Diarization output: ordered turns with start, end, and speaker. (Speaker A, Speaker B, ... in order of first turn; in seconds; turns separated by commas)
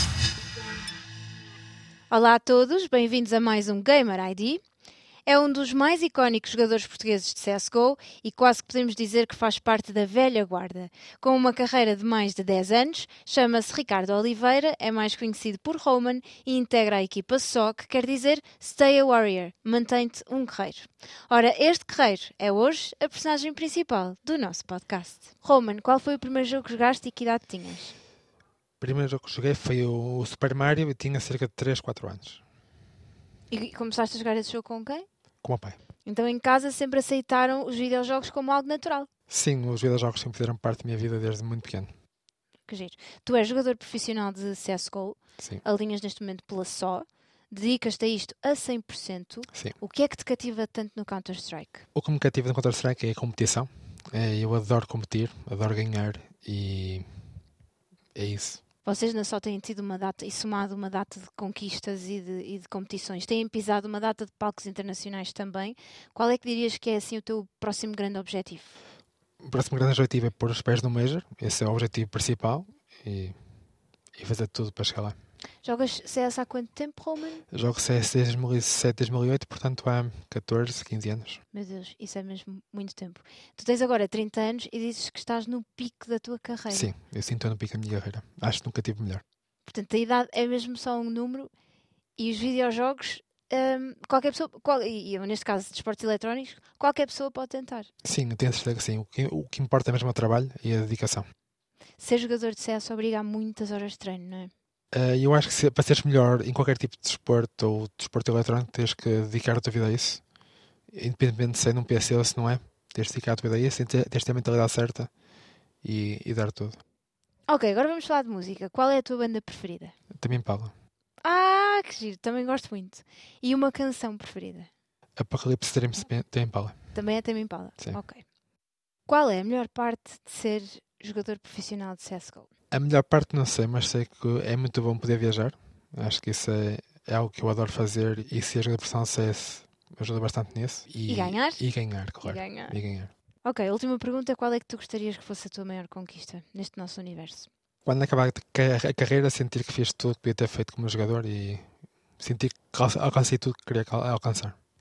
Speaker A: 2.1-4.6, Speaker A: 5.3-27.9, Speaker B: 28.8-32.4, Speaker A: 33.5-35.1, Speaker B: 35.4-35.8, Speaker A: 36.0-39.1, Speaker B: 39.3-41.9, Speaker A: 42.7-51.9, Speaker B: 52.0-57.1, Speaker B: 58.1-58.6, Speaker A: 58.9-68.8, Speaker B: 69.4-73.4, Speaker B: 74.2-75.2, Speaker A: 75.6-77.5, Speaker B: 77.5-81.4, Speaker A: 81.5-86.9, Speaker B: 86.7-89.2, Speaker A: 89.7-91.5, Speaker A: 92.2-97.9, Speaker B: 98.0-101.3, Speaker A: 102.0-104.5, Speaker B: 104.9-110.2, Speaker B: 110.9-115.1, Speaker B: 115.8-116.8, Speaker A: 117.5-120.0, Speaker B: 120.2-120.7, Speaker A: 121.2-124.7, Speaker B: 125.2-126.8, Speaker A: 126.9-128.2, Speaker A: 129.1-132.5, Speaker B: 132.7-143.1, Speaker A: 141.1-141.6, Speaker A: 142.2-142.8, Speaker A: 143.4-147.5, Speaker B: 147.8-151.7, Speaker B: 152.2-154.6